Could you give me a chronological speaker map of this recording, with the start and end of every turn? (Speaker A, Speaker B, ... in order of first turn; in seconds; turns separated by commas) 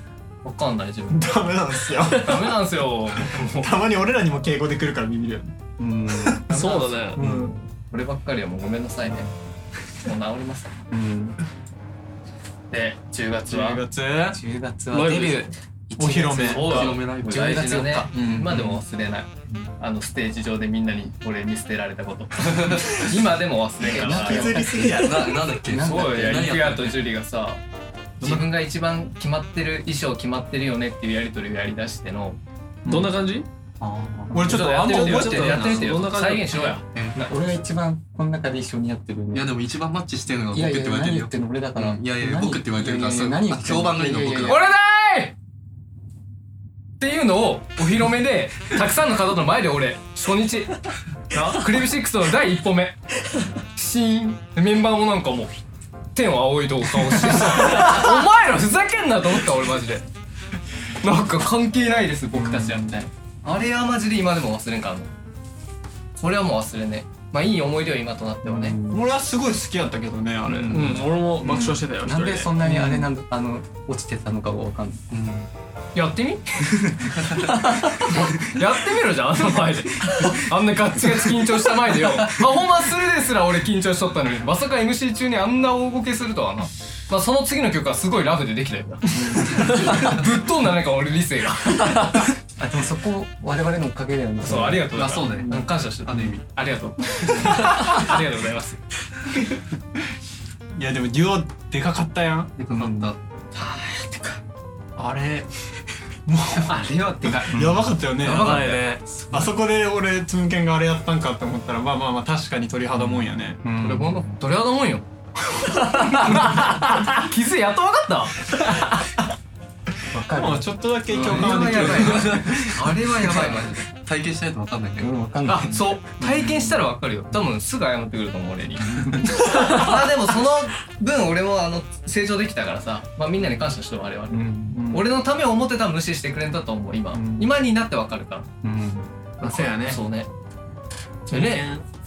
Speaker A: 0.4-1.5, Speaker B: 1.1-2.5, Speaker A: 2.1-3.7, Speaker B: 3.2-5.5, Speaker C: 5.8-6.5, Speaker B: 6.1-6.5, Speaker A: 6.5-9.3, Speaker D: 6.5-7.2, Speaker B: 7.2-7.6, Speaker A: 10.0-10.8, Speaker C: 10.9-11.4, Speaker A: 12.7-13.8, Speaker B: 13.5-14.4, Speaker C: 14.3-18.1, Speaker D: 14.9-15.5, Speaker B: 16.0-16.9, Speaker A: 16.5-24.6, Speaker E: 16.5-17.8, Speaker B: 18.1-18.8, Speaker E: 22.5-22.8, Speaker C: 23.8-26.4, Speaker B: 23.9-25.5, Speaker E: 24.8-27.0, Speaker A: 25.8-27.6, Speaker A: 28.2-32.4, Speaker B: 28.2-28.5, Speaker B: 32.8-33.1, Speaker D: 32.9-33.5, Speaker E: 33.8-34.6, Speaker B: 34.3-36.0, Speaker A: 34.4-37.3, Speaker D: 34.8-36.8, Speaker C: 37.2-39.5, Speaker E: 39.3-44.6, Speaker C: 40.5-44.6, Speaker A: 44.5-45.3, Speaker A: 47.0-50.7, Speaker A: 51.3-53.0, Speaker A: 53.8-55.5, Speaker A: 56.1-60.0, Speaker A: 61.0-65.1, Speaker C: 62.4-62.9, Speaker A: 66.2-68.8, Speaker C: 68.4-69.0, Speaker B: 68.9-71.8, Speaker C: 70.5-70.9, Speaker D: 70.7-72.6, Speaker C: 71.5-75.1, Speaker E: 75.1-75.5, Speaker A: 76.0-77.2, Speaker C: 76.9-77.2, Speaker A: 77.8-92.2, Speaker C: 89.3-89.6, Speaker C: 92.6-94.9, Speaker A: 94.4-98.8, Speaker E: 94.9-96.4, Speaker B: 97.5-98.0, Speaker B: 100.8-102.5, Speaker E: 102.6-103.2, Speaker C: 102.7-103.1, Speaker A: 103.5-104.4, Speaker B: 105.0-105.5, Speaker B: 106.3-113.6, Speaker A: 106.6-107.7, Speaker C: 107.5-108.0, Speaker A: 108.2-108.9, Speaker D: 108.2-109.1, Speaker C: 113.6-114.2, Speaker A: 113.8-115.1, Speaker A: 115.8-118.5, Speaker C: 120.1-120.7, Speaker B: 120.3-122.7, Speaker A: 121.1-123.8, Speaker E: 121.2-125.8, Speaker C: 125.0-126.7, Speaker A: 125.5-138.5, Speaker C: 128.9-129.3, Speaker C: 134.3-134.8, Speaker B: 134.6-135.1, Speaker B: 137.1-137.5, Speaker C: 138.6-139.1, Speaker B: 139.4-140.0, Speaker A: 139.4-140.3, Speaker A: 141.3-141.7, Speaker B: 141.3-141.8